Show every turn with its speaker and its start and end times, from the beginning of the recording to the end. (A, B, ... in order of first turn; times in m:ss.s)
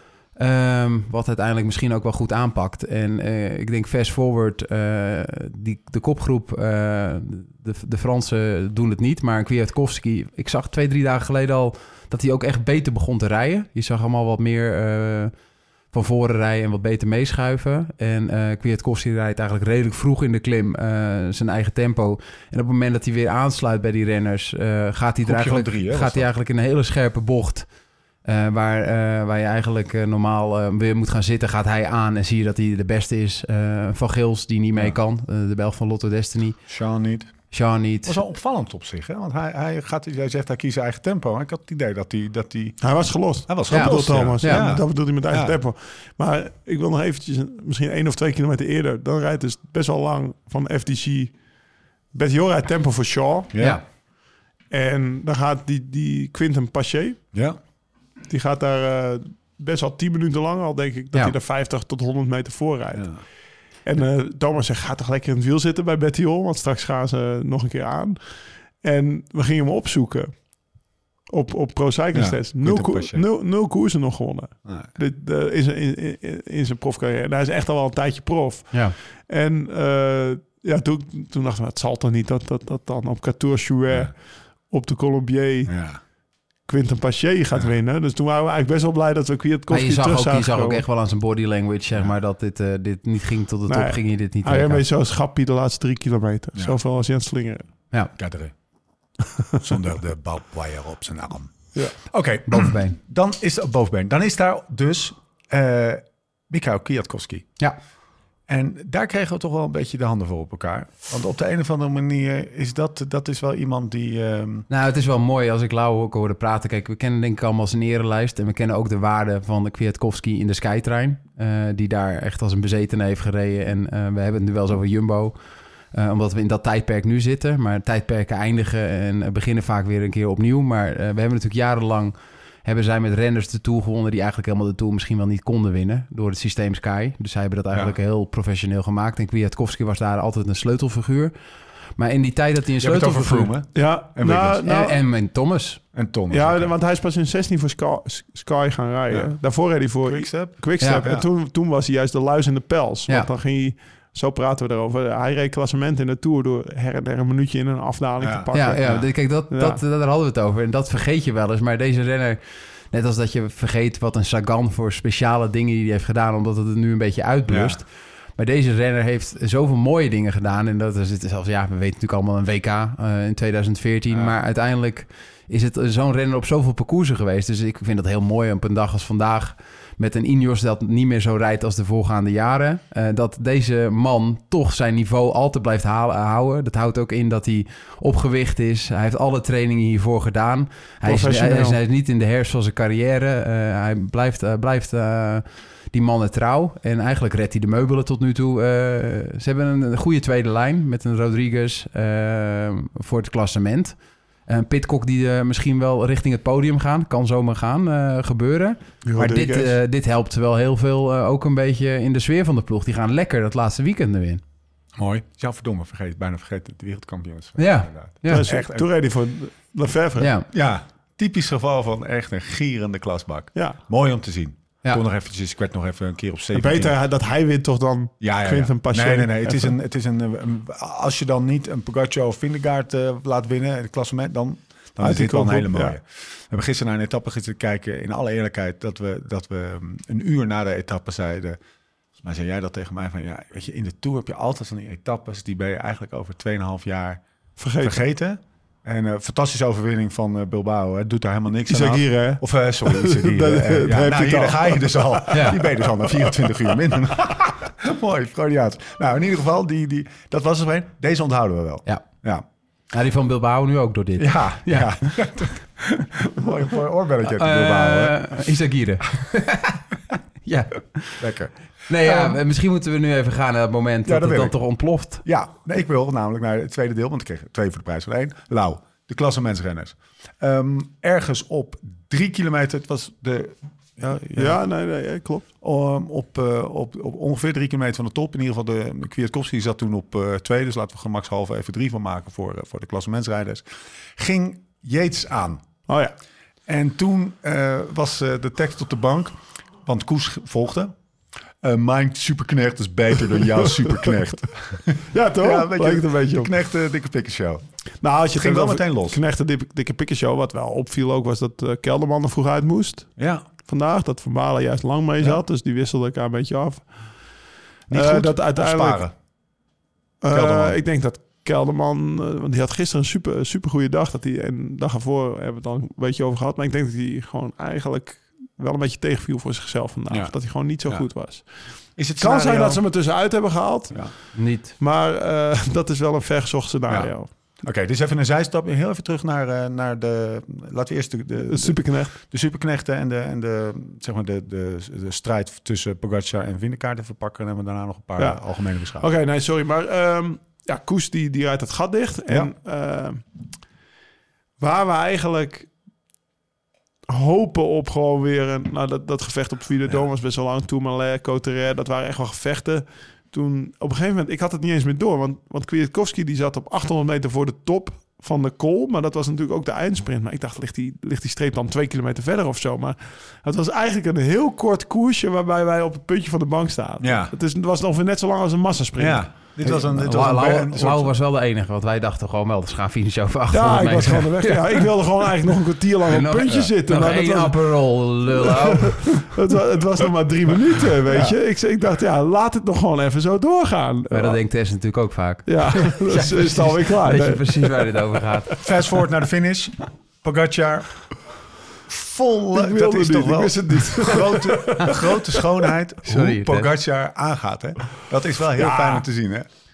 0:00.4-0:15.3 A
0:15.9-0:27.7 A
0:25.2-0:26.3 B
0:28.2-0:36.6 A
0:36.7-0:37.4 B
0:37.5-0:38.2 A
0:38.1-0:45.6 B
0:42.8-0:51.6 C
0:43.7-0:44.7 A
0:52.1-0:53.6 C
0:53.5-0:53.8 B
0:53.6-0:53.8 A
0:54.7-0:57.3 C
0:57.3-0:57.6 B
0:58.3-1:25.8 C
1:02.9-1:03.2 B
1:12.1-1:13.3 B
1:25.7-1:26.0 B
1:26.6-1:30.8 C
1:29.7-1:34.8 A
1:33.7-1:37.7 C
1:38.1-1:38.5 B
1:39.6-1:47.5 B
1:42.5-1:43.0 A
1:48.5-1:54.7 B
1:54.7-2:05.4 A
2:05.9-2:21.3 A
2:22.0-2:23.6 A
2:22.8-2:24.6 B
2:23.8-2:25.0 C
2:24.6-2:25.8 A
2:25.9-2:26.7 B
2:26.3-2:39.8 C
2:29.1-2:29.4 B
2:30.0-2:31.3 B
2:30.8-2:31.1 A
2:38.2-2:39.0 B
2:38.5-3:34.4 A
2:47.5-2:47.8 B
2:54.1-2:54.4 B
3:11.0-3:11.8 C
3:29.0-3:29.7 C
3:29.2-3:29.4 B
3:35.0-3:38.9 B
3:37.6-3:38.4 A
3:38.3-3:40.3 C
3:40.2-3:40.5 A
3:40.5-3:46.9 B
3:46.5-3:49.8 C
3:48.2-4:01.6 B
3:55.0-3:56.0 C
4:02.2-4:07.2 B
4:07.6-4:08.0 C
4:07.8-4:22.4 B
4:11.7-4:17.1 C
4:15.3-4:15.6 A
4:21.9-4:22.2 A
4:22.9-4:25.2 A
4:24.2-4:28.2 B
4:27.3-4:29.8 A
4:30.4-4:31.3 A
4:31.2-4:32.4 B
4:31.9-4:35.2 A
4:34.1-4:34.6 B
4:35.2-4:44.6 B
4:44.4-4:45.5 C
4:45.6-4:55.6 B
4:55.9-4:56.2 C
4:56.7-5:00.9 B
5:01.6-5:07.6 B
5:05.1-5:06.5 C
5:08.0-5:19.1 C
5:08.4-5:09.2 B
5:13.2-5:13.4 B
5:17.9-5:19.1 B
5:20.2-5:37.3 C
5:20.3-5:20.8 B
5:30.1-5:31.1 B
5:31.9-5:32.8 B
5:34.3-5:34.7 A
5:36.9-5:49.1 B
5:41.4-5:42.2 C
5:48.2-5:53.2 C
5:52.3-5:52.5 B
5:54.6-5:55.7 C
5:57.1-6:19.6 C
6:17.0-6:17.3 B
6:19.0-6:21.1 B
6:19.6-6:24.9 A
6:23.5-6:34.4 C
6:26.1-6:29.3 A
6:31.1-6:31.4 B
6:34.1-6:38.5 A
6:35.5-6:38.6 C
6:38.6-6:41.3 B
6:41.9-6:49.5 B
6:42.5-6:45.7 C
6:46.0-6:46.7 A
6:48.6-6:49.1 C